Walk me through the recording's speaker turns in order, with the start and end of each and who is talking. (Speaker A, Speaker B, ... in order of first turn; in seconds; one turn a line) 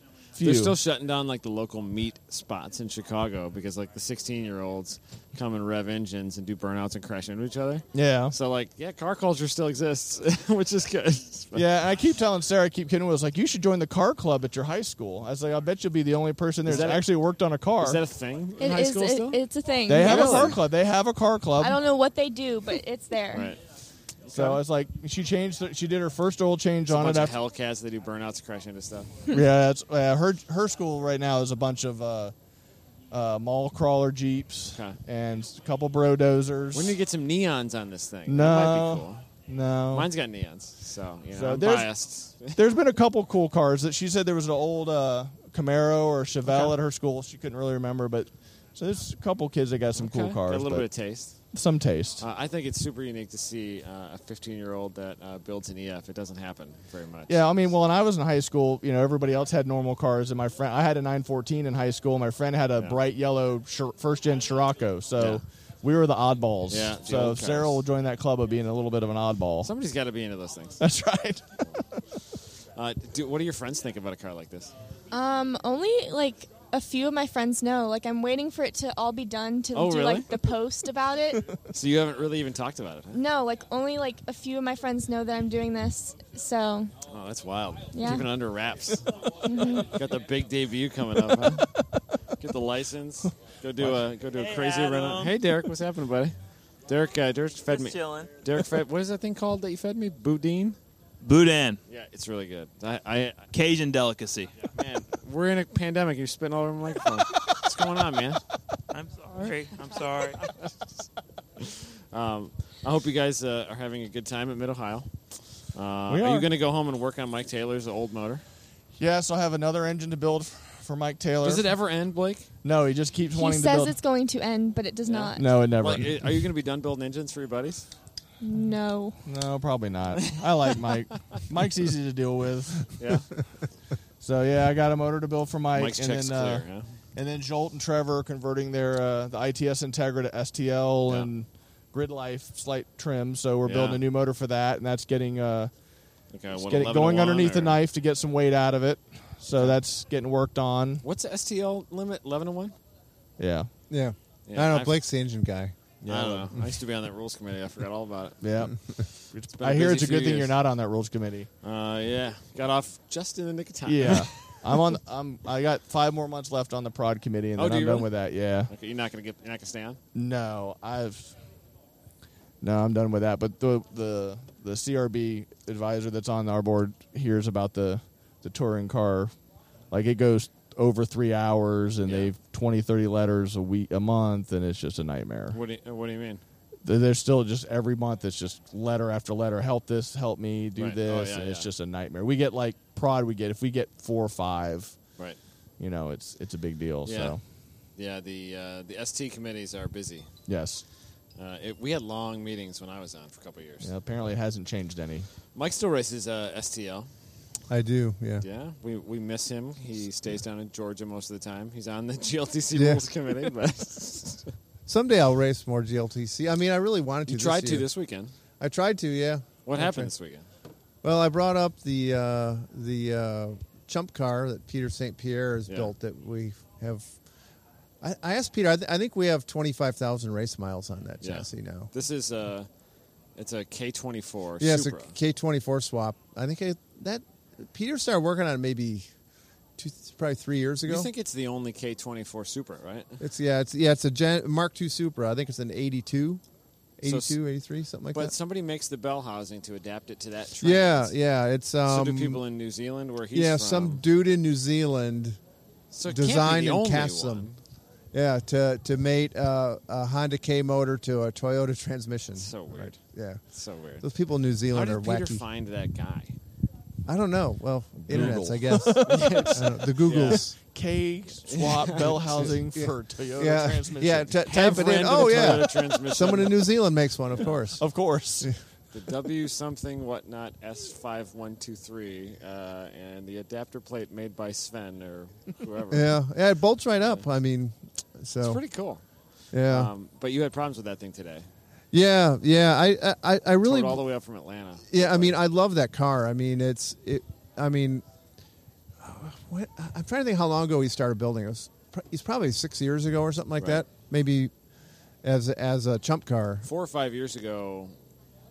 Speaker A: 0.3-0.8
Speaker B: 0.4-11.7
Speaker A: 7.9-8.3
Speaker A: 11.5-18.0
Speaker B: 16.6-17.1
Speaker B: 17.8-19.4
Speaker C: 18.6-20.6
Speaker A: 19.9-21.8
Speaker B: 20.0-20.6
Speaker C: 21.6-23.5
Speaker B: 23.3-23.6
Speaker B: 24.2-24.6
Speaker A: 24.3-27.4
Speaker B: 26.9-29.2
Speaker A: 29.3-32.3
Speaker A: 33.1-37.0
Speaker B: 34.7-35.0
Speaker B: 36.7-39.2
Speaker A: 38.2-40.1
Speaker B: 39.9-42.6
Speaker A: 41.3-41.9
Speaker A: 42.5-50.9
Speaker B: 46.5-46.7
Speaker B: 49.9-51.4
Speaker A: 51.5-52.2
Speaker B: 52.2-57.4
Speaker A: 57.3-69.7
Speaker B: 65.2-65.4
Speaker B: 66.7-67.8
Speaker B: 69.6-70.8
Speaker A: 70.8-72.2
Speaker B: 72.7-74.7
Speaker C: 75.1-81.4
Speaker B: 79.7-80.3
Speaker B: 81.7-83.2
Speaker C: 83.1-86.9
Speaker B: 87.1-89.1
Speaker C: 87.9-88.3
Speaker C: 89.4-90.0
Speaker B: 89.8-91.7
Speaker A: 91.3-92.0
Speaker B: 92.3-100.8
Speaker A: 93.8-94.0
Speaker D: 94.3-95.4
Speaker D: 97.7-98.3
Speaker D: 101.2-101.8
Speaker B: 101.8-103.5
Speaker D: 103.5-104.6
Speaker B: 104.6-108.4
Speaker D: 108.9-110.4
Speaker B: 109.7-110.7
Speaker B: 111.6-118.4
Speaker A: 116.1-116.5
Speaker A: 119.0-121.7
Speaker B: 121.4-122.5
Speaker A: 122.6-123.9
Speaker C: 123.3-125.5
Speaker B: 125.0-127.9
Speaker A: 125.3-126.3
Speaker C: 128.4-129.2
Speaker A: 129.2-133.1
Speaker B: 133.0-133.3
Speaker A: 134.2-145.7
Speaker B: 135.7-136.9
Speaker B: 143.6-144.0
Speaker B: 146.3-147.8
Speaker A: 146.5-151.0
Speaker B: 151.0-152.7
Speaker A: 153.4-153.7
Speaker E: 153.9-155.8
Speaker B: 154.5-155.0
Speaker A: 156.0-156.5
Speaker B: 156.1-158.7
Speaker A: 158.4-161.5
Speaker B: 159.5-160.6
Speaker B: 161.6-164.8
Speaker A: 163.8-168.7
Speaker B: 167.6-168.1
Speaker B: 168.7-170.0
Speaker A: 170.1-171.4
Speaker A: 172.6-179.3
Speaker A: 179.9-185.6
Speaker B: 182.0-182.3
Speaker B: 185.5-186.4
Speaker A: 186.8-195.0
Speaker B: 190.8-191.7
Speaker A: 195.8-197.4
Speaker B: 197.0-197.3
Speaker B: 197.9-200.3
Speaker A: 200.5-200.8
Speaker B: 201.3-203.9
Speaker A: 203.8-205.3
Speaker B: 205.5-207.1
Speaker E: 207.7-208.4
Speaker B: 208.4-214.5
Speaker E: 212.7-213.0
Speaker E: 214.9-217.9
Speaker B: 217.3-218.3
Speaker E: 218.6-220.1
Speaker B: 219.7-220.4
Speaker E: 221.0-227.1
Speaker E: 228.0-231.9
Speaker B: 231.2-232.7
Speaker B: 233.3-235.1
Speaker E: 234.6-239.1
Speaker E: 239.8-241.1
Speaker B: 240.8-243.2
Speaker E: 243.2-246.4
Speaker E: 247.0-248.3
Speaker B: 247.0-247.4
Speaker B: 248.1-251.1
Speaker E: 250.6-252.4
Speaker B: 251.8-254.0
Speaker E: 253.3-255.4
Speaker B: 255.9-257.6
Speaker E: 256.0-257.5
Speaker E: 258.1-263.4
Speaker B: 262.3-264.1
Speaker E: 264.0-265.4
Speaker B: 264.7-266.4
Speaker E: 267.1-270.6
Speaker A: 268.1-275.7
Speaker B: 269.0-270.5
Speaker B: 271.5-272.5
Speaker E: 272.1-277.9
Speaker B: 274.4-276.8
Speaker B: 277.3-277.6
Speaker A: 277.8-278.5
Speaker B: 278.9-286.2
Speaker E: 285.9-288.6
Speaker B: 288.4-289.0
Speaker E: 289.5-289.9
Speaker B: 289.6-291.5
Speaker E: 291.9-294.0
Speaker B: 293.6-295.4
Speaker E: 294.9-298.0
Speaker E: 299.0-304.5
Speaker B: 303.6-303.8
Speaker E: 305.2-306.6
Speaker B: 306.6-307.9